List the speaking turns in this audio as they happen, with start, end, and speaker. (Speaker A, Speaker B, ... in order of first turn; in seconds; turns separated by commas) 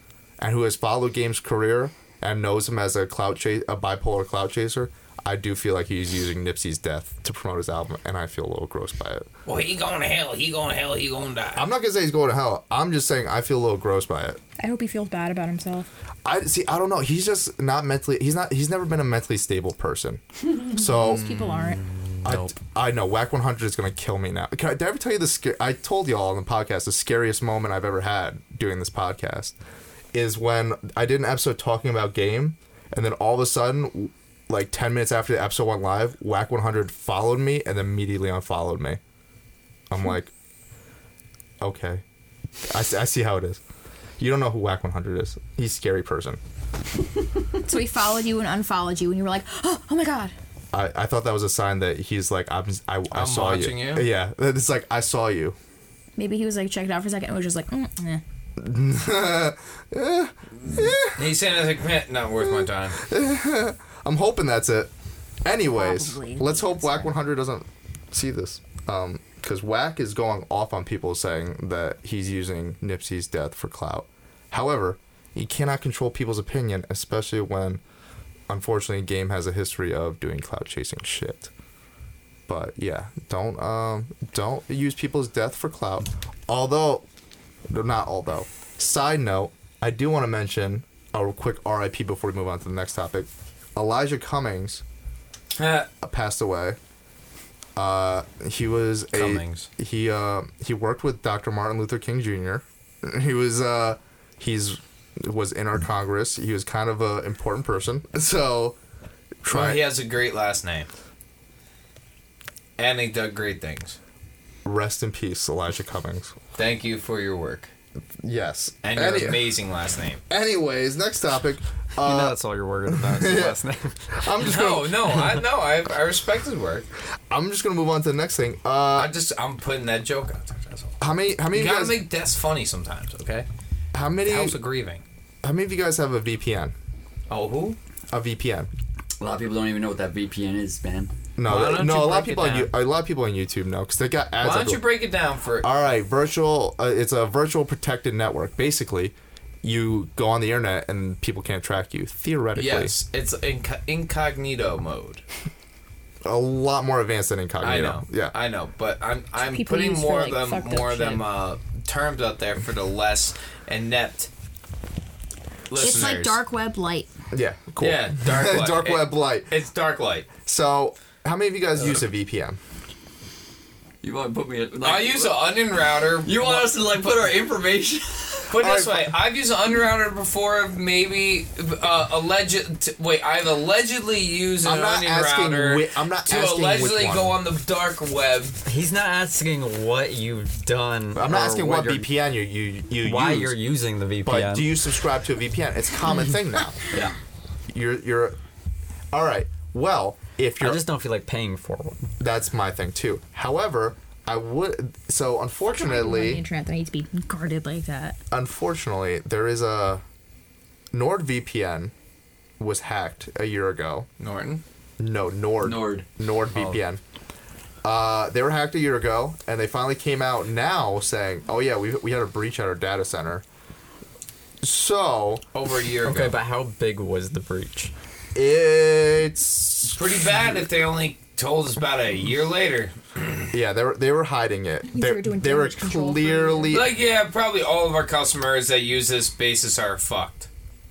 Speaker A: 0.4-9.3, Speaker B: 9.5-11.7, Speaker A: 11.6-14.4, Speaker C: 14.6-15.9, Speaker A: 16.2-21.3, Speaker C: 20.7-21.8, Speaker B: 21.3-22.0, Speaker A: 22.2-29.6, Speaker A: 30.1-39.0, Speaker A: 39.9-40.3, Speaker A: 41.6-42.0, Speaker A: 42.6-43.6, Speaker A: 44.2-46.4, Speaker C: 47.6-50.3, Speaker A: 50.7-55.6, Speaker B: 53.1-54.1, Speaker C: 56.2-58.2, Speaker A: 58.6-61.3, Speaker B: 60.6-63.0, Speaker A: 62.4-64.9, Speaker A: 65.5-77.8, Speaker C: 65.7-67.2, Speaker A: 78.5-81.5, Speaker A: 82.5-87.0, Speaker A: 87.7-94.8, Speaker B: 95.6-95.9, Speaker A: 96.0-96.8, Speaker A: 97.8-108.8, Speaker B: 99.1-99.7, Speaker A: 109.4-109.8, Speaker B: 109.5-110.9, Speaker B: 112.8-114.0, Speaker A: 114.7-116.3, Speaker B: 116.6-117.7, Speaker A: 118.2-119.5, Speaker B: 118.8-120.2, Speaker A: 120.3-123.6, Speaker D: 122.0-124.2, Speaker A: 124.1-125.3, Speaker B: 124.4-126.9, Speaker A: 127.3-129.1, Speaker B: 128.9-131.0, Speaker A: 131.0-132.0, Speaker B: 131.5-133.5, Speaker A: 133.9-134.6, Speaker B: 134.2-135.0, Speaker A: 135.4-136.7, Speaker B: 137.3-137.8, Speaker A: 138.1-138.7, Speaker E: 139.2-141.1, Speaker A: 141.4-144.8, Speaker B: 141.4-142.7, Speaker B: 144.4-145.7, Speaker A: 145.6-152.9, Speaker B: 152.6-155.2, Speaker A: 156.2-158.3, Speaker B: 157.6-164.3, Speaker C: 159.4-161.2, Speaker B: 165.7-166.4, Speaker C: 165.8-167.1, Speaker A: 167.3-169.5, Speaker B: 167.8-170.3, Speaker A: 170.4-172.6, Speaker E: 174.0-175.6, Speaker B: 174.8-177.1, Speaker E: 176.2-178.5, Speaker B: 178.5-188.6, Speaker A: 178.6-179.1, Speaker A: 184.6-187.4, Speaker D: 188.7-192.1, Speaker A: 191.2-193.6, Speaker D: 193.0-194.7, Speaker A: 194.2-196.8, Speaker E: 196.9-197.2, Speaker A: 197.7-198.4, Speaker A: 199.1-200.8, Speaker D: 200.6-202.0, Speaker A: 202.2-206.4, Speaker C: 205.7-208.2, Speaker A: 208.3-210.0, Speaker A: 210.9-211.9, Speaker A: 212.6-214.1, Speaker B: 214.2-214.6, Speaker A: 215.0-217.0, Speaker E: 215.6-216.1, Speaker A: 217.8-223.4, Speaker A: 224.6-225.4, Speaker B: 225.5-226.4, Speaker D: 226.1-227.9, Speaker A: 228.3-230.3, Speaker B: 229.9-233.5, Speaker A: 233.5-236.9, Speaker C: 234.9-236.8, Speaker B: 236.7-240.5